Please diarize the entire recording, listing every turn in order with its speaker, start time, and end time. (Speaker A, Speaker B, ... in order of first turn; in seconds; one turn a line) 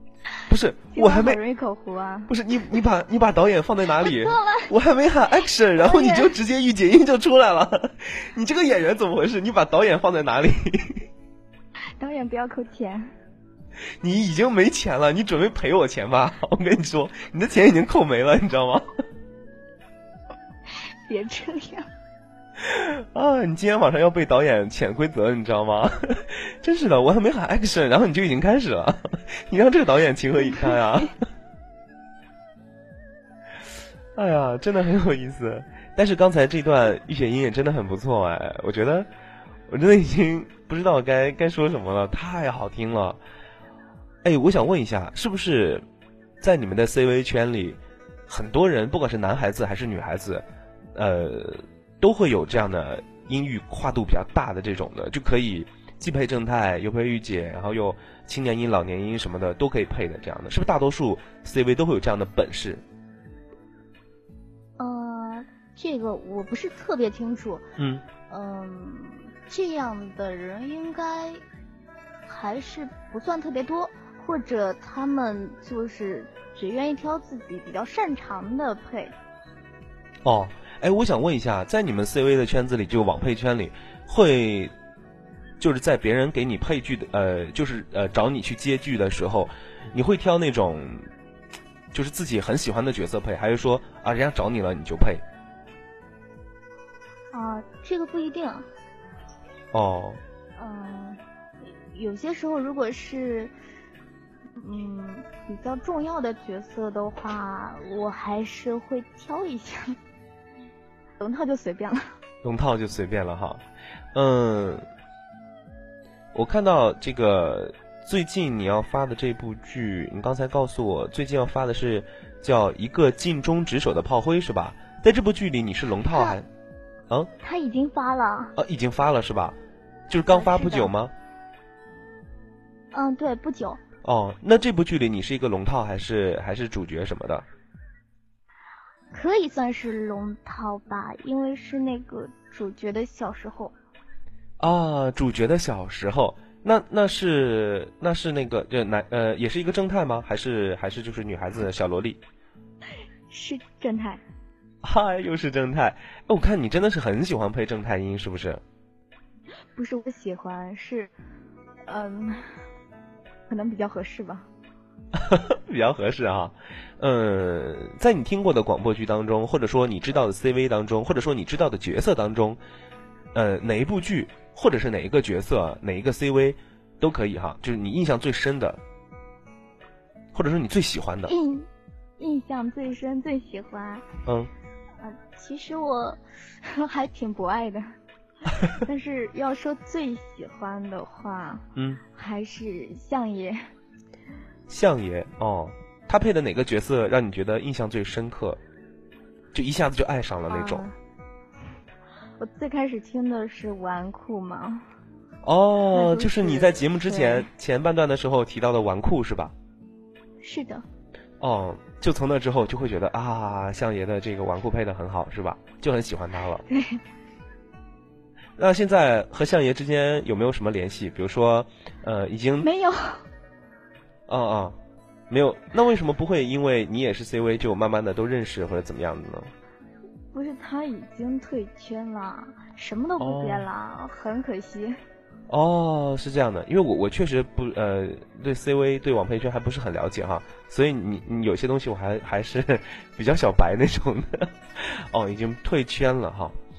Speaker A: 0.5-1.4
Speaker B: 0.9-2.3
Speaker A: 2.3-11.0
Speaker B: 4.0-4.7
Speaker B: 5.8-6.3
Speaker B: 12.0-13.1
Speaker A: 14.0-18.8
Speaker B: 21.1-21.9
Speaker A: 22.6-31.1
Speaker A: 34.1-39.1
Speaker A: 39.7-43.2
Speaker A: 44.2-45.8
Speaker A: 46.4-62.8
Speaker B: 64.8-67.7
Speaker A: 67.8-68.0
Speaker B: 68.3-71.4
Speaker B: 72.3-79.1
Speaker A: 80.2-84.7
Speaker A: 85.6-91.1
Speaker A: 91.9-95.2
Speaker B: 97.3-98.7
Speaker A: 99.7-100.2
Speaker B: 100.6-101.2
Speaker B: 101.9-103.5
Speaker B: 104.6-110.0
Speaker B: 111.2-112.1
Speaker A: 112.4-113.6
Speaker A: 114.1-114.8
Speaker A: 116.3-126.5
Speaker B: 126.1-126.4
Speaker B: 127.4-128.5
Speaker A: 128.6-129.6
Speaker A: 130.1-131.1
Speaker B: 130.3-130.9
Speaker B: 132.9-133.8
Speaker A: 134.0-137.4
Speaker B: 139.1-143.7
Speaker A: 144.6-152.2
Speaker B: 153.3-154.2
Speaker A: 154.8-158.6
Speaker B: 159.8-161.1
Speaker B: 161.8-162.5
Speaker B: 163.5-164.5
Speaker A: 165.1-172.6
Speaker A: 173.3-178.8
Speaker A: 180.3-181.3
Speaker B: 181.3-181.7
Speaker B: 182.2-184.1
Speaker A: 184.2-184.5
Speaker B: 185.0-187.8
Speaker B: 188.7-193.6
Speaker A: 191.8-192.0
Speaker A: 194.7-198.6
Speaker A: 199.5-200.8
Speaker B: 200.5-200.9
Speaker B: 202.4-204.8
Speaker A: 205.4-209.5
Speaker B: 205.9-207.5
Speaker B: 210.4-210.8
Speaker A: 211.4-216.6
Speaker B: 216.7-217.0
Speaker A: 218.6-222.7
Speaker B: 222.6-223.2
Speaker A: 224.3-224.8
Speaker A: 225.3-229.5
Speaker B: 230.3-235.0
Speaker A: 233.2-233.7
Speaker A: 235.5-246.6